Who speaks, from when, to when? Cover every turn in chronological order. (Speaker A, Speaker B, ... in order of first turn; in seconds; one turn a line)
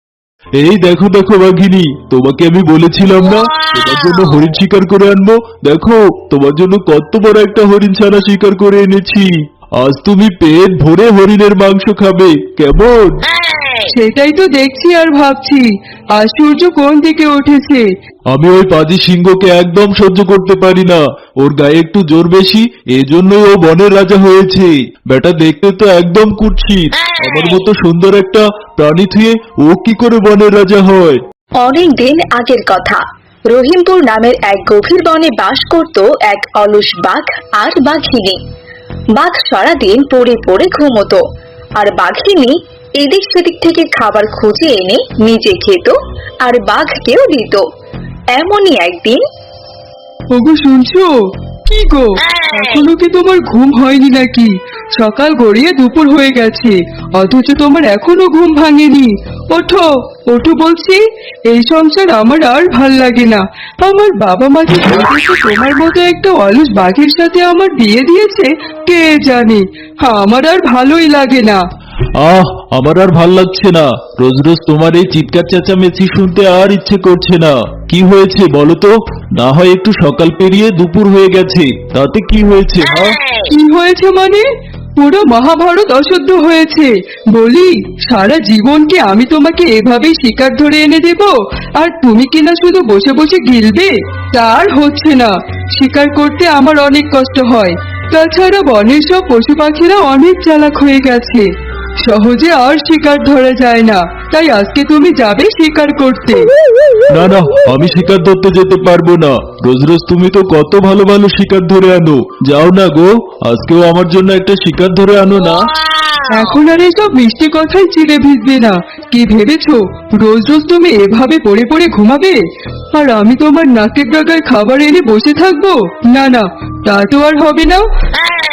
Speaker A: 0.6-13.2
Speaker B: 13.9-17.9
Speaker A: 18.3-31.2
Speaker C: 31.6-38.4
Speaker C: 39.1-41.2
Speaker C: 41.8-47.6
Speaker C: 48.3-49.2
Speaker B: 50.3-51.1
Speaker B: 51.6-71.6
Speaker A: 72.2-83.2
Speaker B: 83.5-106.5
Speaker A: 107.1-115.7
Speaker B: 116.3-122.4
Speaker B: 122.9-127.8